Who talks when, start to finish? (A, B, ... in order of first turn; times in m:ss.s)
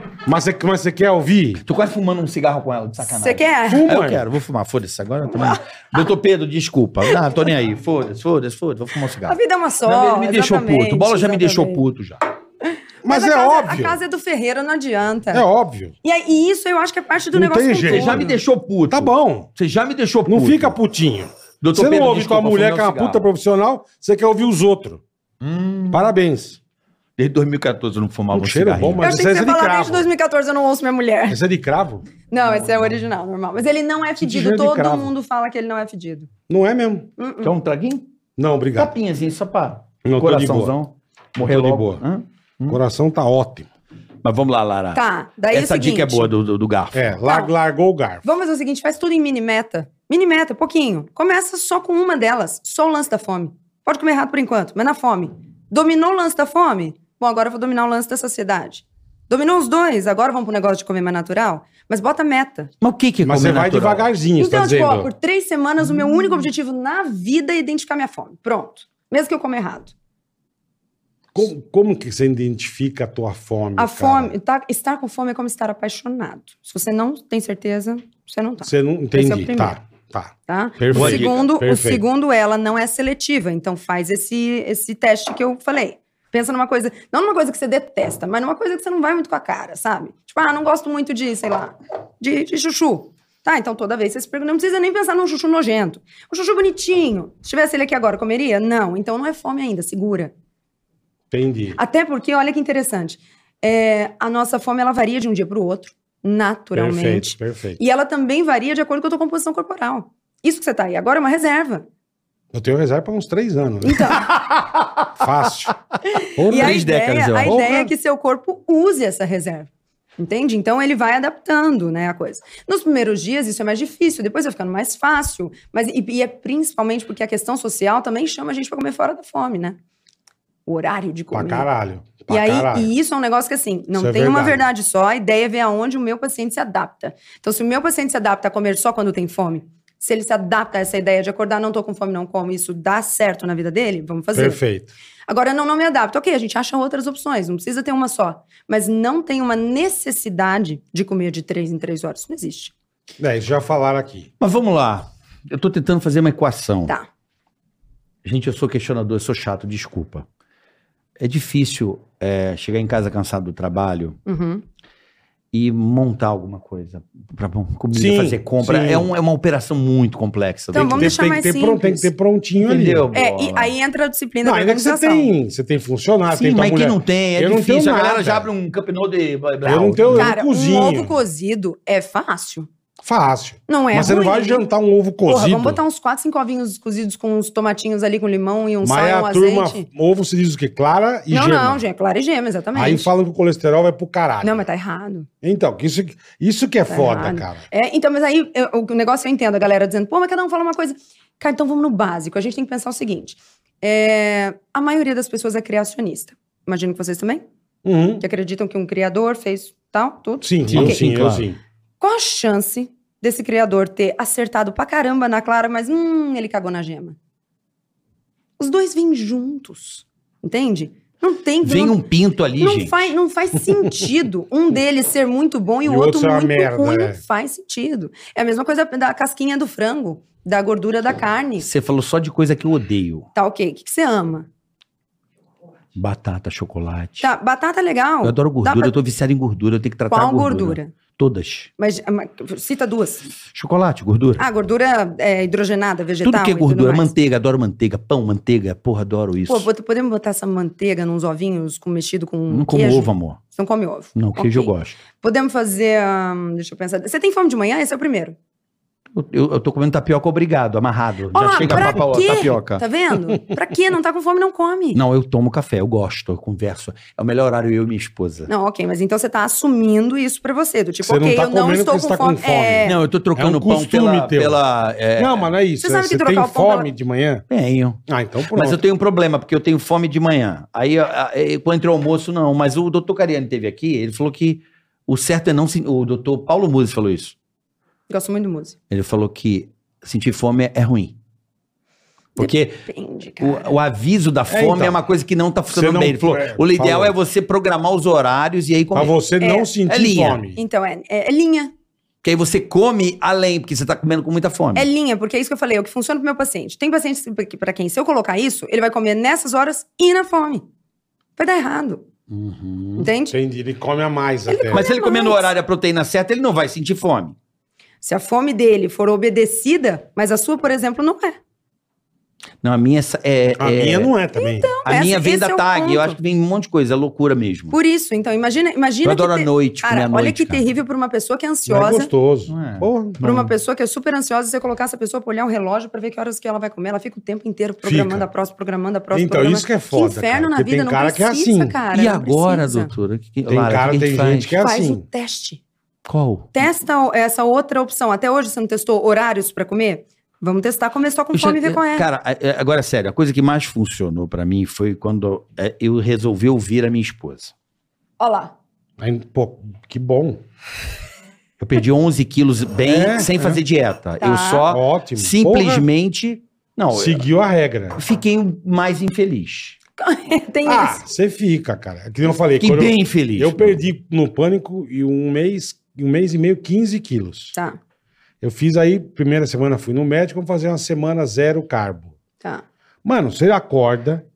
0:00.2-0:01.6 A
0:01.6-0:12.2 B
0:03.0-0:03.9 C
0:03.7-0:04.2 A
0:05.3-0:05.6 C
0:09.3-0:11.8 C
0:13.0-0:14.0 A
0:13.0-0:15.4 C
0:15.3-0:15.9 A
0:16.0-0:18.4 C
0:17.3-0:18.4 A
0:17.9-0:20.8 B
0:18.9-0:19.5 A
0:20.2-0:25.0 A
0:21.6-0:23.3 B
0:25.4-0:26.1 B
0:25.9-0:26.6 A
0:27.2-0:29.1 B
0:28.3-0:30.1 A
0:29.0-0:31.4 C
0:31.3-0:32.0 A
0:32.3-0:36.3 C
0:34.2-0:35.1 A
0:36.5-0:37.1 A
0:37.2-0:37.5 C
0:37.4-0:38.1 B
0:38.4-0:38.9 A
0:38.8-0:42.8 B
0:40.0-0:40.7 A
0:41.4-0:42.0 A
0:42.7-0:43.7 A
0:44.2-0:47.2 B
0:44.9-0:46.3 C
0:46.9-0:48.2 A
0:47.2-0:47.5 C
0:48.2-1:02.7 C
1:02.8-1:04.1 B
1:03.2-1:05.1 A
1:04.4-1:09.9 C
1:11.3-1:14.3 A
1:13.8-1:19.8 C
1:18.6-1:22.0 A
1:20.5-1:40.3 C
1:20.9-1:21.4 B
1:41.3-1:41.8 A
1:41.8-1:51.9 C
1:46.7-1:47.8 A
1:52.5-1:54.3 A
1:53.8-1:54.3 C
1:54.3-1:54.8 B
1:55.1-1:55.7 A
1:56.1-2:09.8 C
1:56.3-1:56.8 A
1:56.5-1:57.6 B
1:57.4-1:57.9 A
2:10.6-2:11.7 C
2:11.3-2:12.9 A
2:12.3-2:24.6 C
2:13.9-2:14.6 A
2:24.3-2:24.9 A
2:25.3-2:32.7 C
2:33.2-2:34.3 A
2:34.4-2:36.9 B
2:38.2-2:40.2 B
2:41.2-2:44.2 B
2:44.2-2:44.6 C
2:45.5-2:51.2 B
2:47.9-2:49.1 A
2:50.7-2:52.1 C
2:50.7-2:53.1 A
2:52.6-2:53.7 B
2:53.1-2:55.3 C
2:54.4-2:58.5 A
2:56.3-3:00.3 B
2:59.6-3:01.2 A
3:00.1-3:02.7 C
3:03.0-3:05.8 A
3:03.7-3:04.6 C
3:05.2-3:09.9 C
3:08.8-3:11.8 A
3:11.3-3:13.1 C
3:12.7-3:14.6 A
3:14.4-3:15.3 C
3:15.4-3:17.6 A
3:16.9-3:27.4 C
3:27.8-3:28.2 A
3:28.2-3:31.0 C
3:30.4-3:31.6 A
3:30.7-3:31.5 B
3:32.0-3:37.2 C
3:38.6-3:42.0 C
3:41.6-3:43.1 B
3:42.6-3:51.7 C
3:45.8-3:47.2 A
3:51.6-3:53.3 B
3:53.3-3:54.5 C
3:55.9-3:57.3 B
3:57.2-3:58.9 C
3:58.2-4:01.7 B
4:00.1-4:00.9 C
4:01.8-4:03.3 C
4:03.5-4:04.4 B
4:04.4-4:07.1 C
4:06.2-4:09.7 B
4:09.5-4:18.4 C
4:12.5-4:13.4 B
4:14.2-4:15.0 B
4:19.1-4:22.8 B
4:21.3-4:25.0 C
4:24.9-4:28.5 B
4:28.5-4:33.0 C
4:31.0-4:34.6 A
4:32.8-4:35.5 B
4:35.2-4:37.4 A
4:35.8-4:36.9 C
4:37.5-4:38.0 B
4:38.1-4:38.8 A
4:38.5-4:47.3 B
4:48.1-4:48.8 C
4:48.9-4:51.1 B
4:52.4-4:52.8 B
4:52.4-4:53.7 C
4:53.4-4:59.1 B
4:54.5-4:55.0 A
4:55.7-4:57.1 A
4:58.9-5:00.6 A
4:59.4-4:59.7 C
4:59.9-5:00.4 B
5:00.5-5:01.7 C
5:02.2-5:04.9 B
5:04.7-5:10.6 C
5:11.4-5:12.0 C
5:12.3-5:13.1 B
5:13.0-5:13.4 C
5:13.3-5:14.8 A
5:14.5-5:15.5 C
5:14.7-5:17.3 B
5:18.0-5:21.4 C
5:22.6-5:24.1 B
5:23.6-5:24.7 A
5:24.3-5:26.2 C
5:24.8-5:27.7 B
5:27.7-5:32.1 C
5:29.0-5:30.7 B
5:31.6-5:33.2 A
5:32.5-5:33.5 B
5:33.2-5:42.9 C
5:37.8-5:38.3 A
5:39.1-5:41.8 A
5:41.9-5:44.5 B
5:43.5-5:45.0 A
5:44.6-5:45.6 C
5:46.0-5:46.5 B
5:46.5-5:52.0 C
5:51.3-5:57.5 B
5:58.2-5:58.5 C
5:59.0-6:00.4 A
6:01.6-6:07.2 B
6:02.8-6:03.6 A
6:04.2-6:04.7 C
6:04.7-6:05.8 A
6:06.9-6:08.0 A
6:08.0-6:09.8 B
6:10.0-6:11.0 C
6:10.6-6:17.6 A
6:12.6-6:13.8 B
6:18.4-6:22.1 A
6:23.0-6:24.2 A